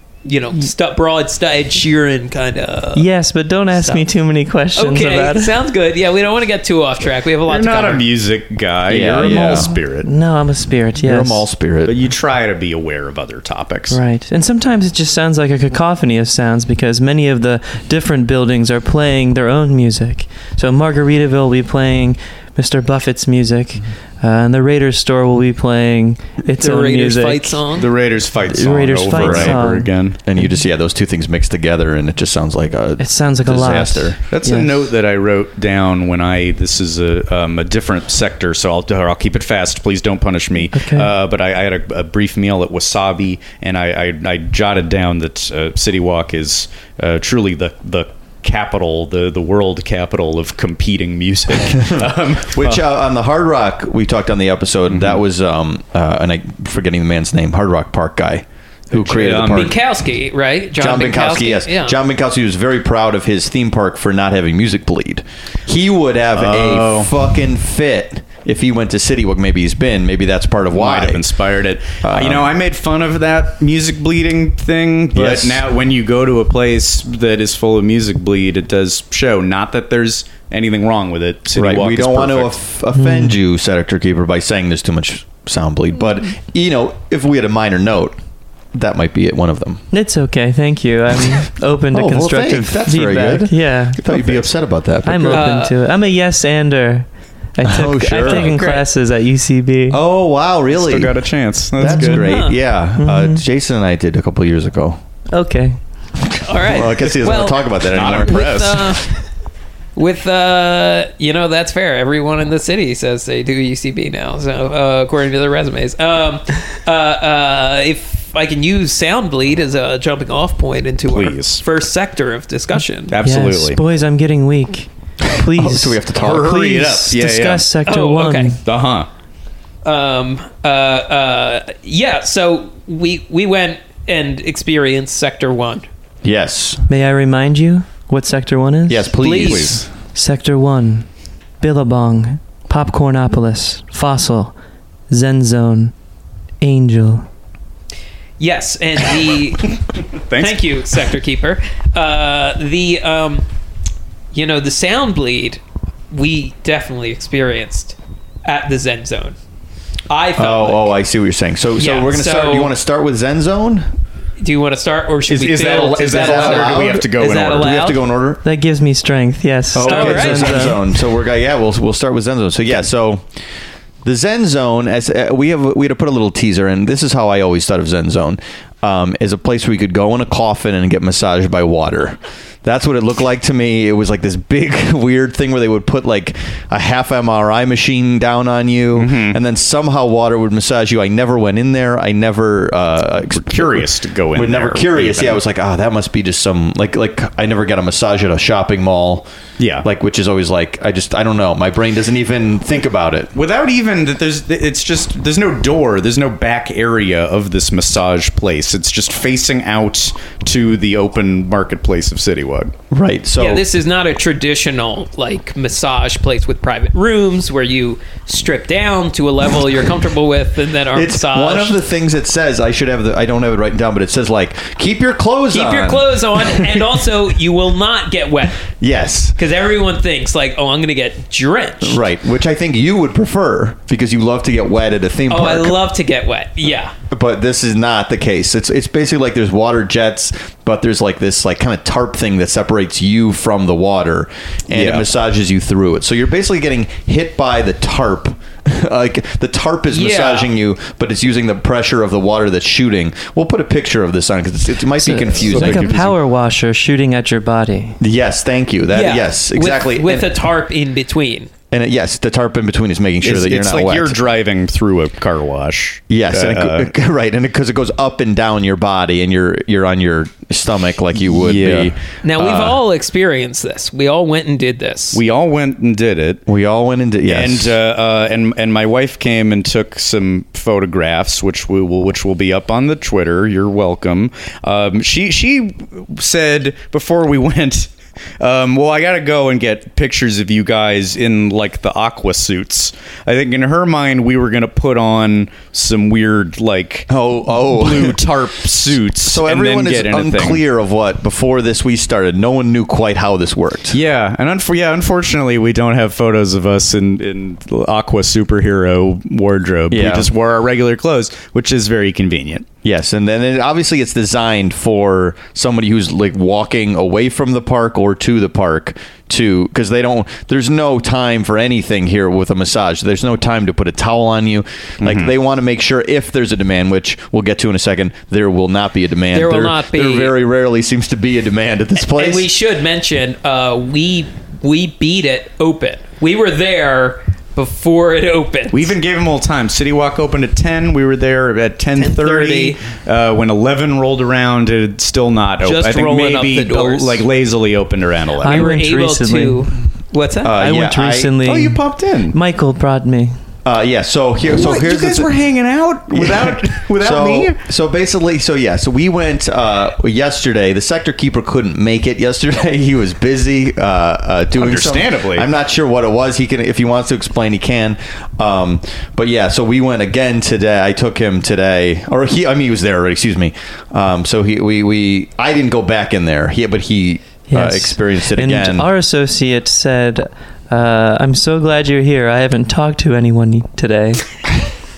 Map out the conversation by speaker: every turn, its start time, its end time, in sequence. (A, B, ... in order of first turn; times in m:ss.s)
0:00.2-0:03.1 A
0:02.9-0:05.5 B
0:03.7-0:04.0 A
0:04.8-0:08.0 A
0:07.5-0:10.1 C
0:08.9-0:09.7 D
0:09.2-0:11.4 B
0:11.0-0:11.9 D
0:11.8-0:14.0 C
0:13.9-0:27.6 B
0:26.6-0:27.9 A
0:27.7-0:30.2 C
0:28.5-0:30.5 B
0:29.1-0:29.6 D
0:30.2-0:34.2 D
0:33.0-0:34.8 B
0:34.3-0:52.8 C
0:40.7-0:41.1 B
0:51.7-0:59.8 D
0:54.9-0:55.2 C
0:58.9-0:59.7 C
0:59.5-1:02.0 A
1:00.8-1:11.2 D
1:06.3-1:07.1 C
1:10.7-1:22.5 C
1:12.0-1:12.5 D
1:15.1-1:15.6 D
1:21.6-1:28.2 D
1:22.9-1:23.4 B
1:28.7-1:29.8 D
1:29.9-1:34.4 B
1:31.9-1:35.5 D
1:35.0-1:40.0 B
1:35.3-1:35.7 A
1:37.6-1:38.5 D
1:38.2-1:38.8 A
1:39.9-1:41.2 D
1:40.7-1:42.4 C
1:41.7-1:45.0 D
1:41.8-1:42.3 B
1:42.3-1:42.6 A
1:43.0-1:43.4 B
1:45.3-1:45.8 B
1:46.3-1:48.6 D
1:46.4-1:49.2 A
1:47.9-1:49.0 C
1:50.0-2:03.1 A
2:01.1-2:01.6 C
2:03.1-2:03.8 C
2:03.2-2:08.6 B
2:05.2-2:06.5 D
2:06.2-2:07.7 C
2:07.8-2:08.6 A
2:08.6-2:09.1 C
2:09.8-2:15.9 A
2:16.2-2:16.8 D
2:16.9-2:19.2 B
2:18.9-2:19.9 D
2:19.2-2:19.8 A
2:20.1-2:21.1 B
2:21.6-2:24.5 B
2:25.1-2:25.9 B
2:26.6-2:27.2 B
2:28.4-2:29.8 A
2:30.3-2:31.0 C
2:30.4-2:33.5 A
2:34.3-2:39.4 A
2:40.1-2:40.9 A
2:40.3-2:43.9 D
2:41.8-2:42.7 A
2:44.4-2:48.0 A
2:45.3-2:47.8 C
2:45.9-2:48.4 D
2:48.4-2:50.8 B
2:49.7-2:53.2 D
2:49.8-2:50.7 A
2:54.0-3:19.3 D
3:08.9-3:09.4 C
3:13.3-3:15.4 C
3:19.6-3:19.9 C
3:19.8-3:23.3 D
3:23.3-3:32.7 C
3:32.9-3:33.6 D
3:33.4-3:41.8 A
3:40.9-3:47.0 D
3:45.5-3:48.7 A
3:48.7-3:49.4 D
3:49.4-3:52.0 A
3:51.8-3:55.8 D
3:55.3-3:56.9 A
3:57.1-4:16.0 D
4:04.7-4:05.1 C
4:09.9-4:10.5 A
4:15.0-4:18.0 B
4:15.3-4:16.2 C
4:18.0-4:20.3 D
4:18.9-4:21.5 A
4:21.7-4:24.2 D
4:23.2-4:26.9 C
4:26.1-4:32.8 D
4:31.3-4:31.9 C
4:32.2-4:35.2 A
4:35.1-4:36.4 C
4:36.5-4:37.7 D
4:37.2-5:00.6 C
4:57.1-4:58.2 D
4:58.8-5:04.0 D
5:03.9-5:12.6 C
5:09.9-5:10.3 D
5:12.8-5:32.5 D
5:25.0-5:25.3 C
5:29.3-5:30.3 A
5:32.0-5:38.9 A
5:38.7-5:48.7 C
5:42.0-5:42.8 A
5:45.6-5:47.2 A
5:48.4-5:50.5 A
5:48.4-5:49.6 B
5:50.4-5:51.3 D
5:50.6-5:51.8 B
5:51.4-5:52.3 C
5:52.3-5:53.3 B
5:53.6-5:55.3 D
5:54.5-5:57.6 C
5:56.1-6:18.9 D
6:04.6-6:05.5 C
6:17.5-6:24.2 B